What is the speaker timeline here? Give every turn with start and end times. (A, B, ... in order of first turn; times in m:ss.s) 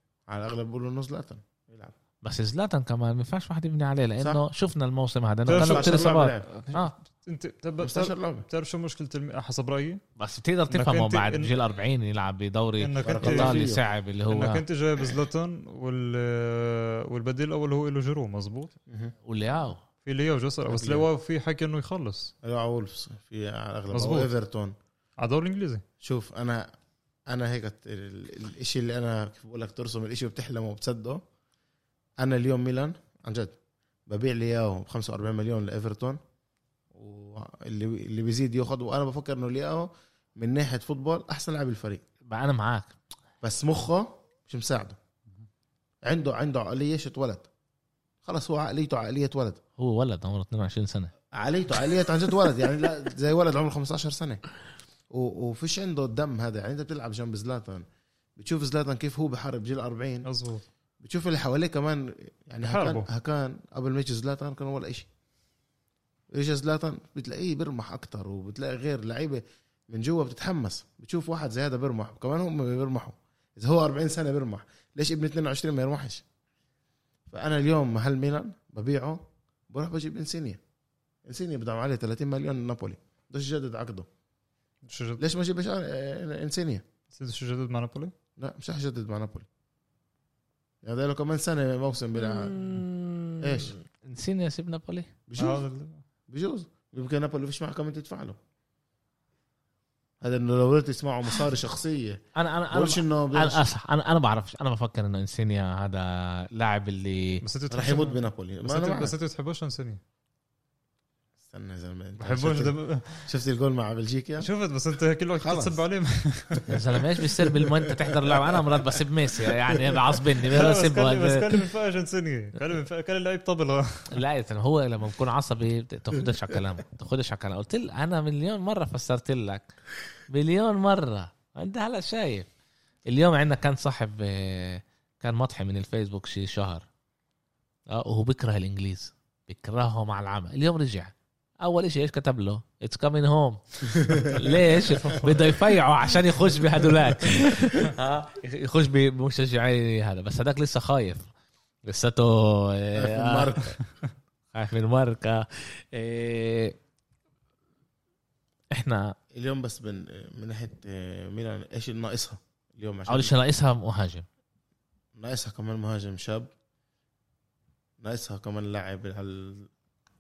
0:00.3-0:01.9 A
0:02.2-0:06.9 B
0:05.5-0:10.0 C
0:05.5-0:06.5 A
0:07.8-0:08.5 A
0:10.2-0:14.6 B
0:10.7-0:11.5 C
0:12.8-0:13.7 C
0:13.0-0:13.8 A
0:14.3-0:18.7 C
0:18.9-0:19.2 A
0:19.3-0:19.8 B
0:20.0-0:22.3 C
0:20.7-0:21.1 A
0:22.4-0:24.8 A
0:23.9-0:24.3 C
0:25.2-0:25.8 C
0:26.0-0:26.7 A
0:27.3-0:31.2 A
0:32.2-0:33.6 A
0:34.1-0:36.2 A
0:36.9-0:42.0 A
0:42.3-0:42.9 B
0:43.4-0:45.0 A
0:46.0-0:47.5 A
0:48.2-0:49.6 A
0:49.8-0:51.1 B
0:51.3-0:54.4 A
0:55.1-0:57.8 A
0:58.4-1:00.3 A
1:00.2-1:00.6 C
1:01.0-1:05.1 A
1:02.6-1:03.1 C
1:06.3-1:16.2 A
1:17.3-1:20.6 A
1:21.3-1:24.1 A
1:24.8-1:25.2 C
1:25.2-1:26.8 A
1:27.1-1:28.1 C
1:28.4-1:29.5 A
1:30.8-1:32.6 A
1:32.2-1:35.1 B
1:33.4-1:33.8 A
1:35.3-1:35.7 A
1:35.4-1:36.0 C
1:36.3-1:38.4 A
1:40.2-1:43.7 A
1:42.4-1:47.4 B
1:47.4-1:50.0 C
1:47.7-1:49.2 A
1:51.4-1:54.5 A
1:52.2-1:53.3 C
1:54.4-1:56.7 C
1:55.4-1:55.8 A
1:56.7-2:01.6 B
1:57.2-2:00.2 A
2:00.5-2:04.2 C
2:04.1-2:09.7 B
2:10.3-2:12.5 B
2:13.1-2:16.9 B
2:17.9-2:31.3 B
2:23.9-2:24.4 A
2:24.8-2:25.5 C
2:31.8-2:33.7 B
2:33.0-2:33.8 A
2:34.5-2:36.8 B
2:38.7-2:39.2 B
2:39.3-2:43.4 A
2:43.1-2:44.3 B
2:45.2-2:46.5 A
2:48.0-2:49.7 A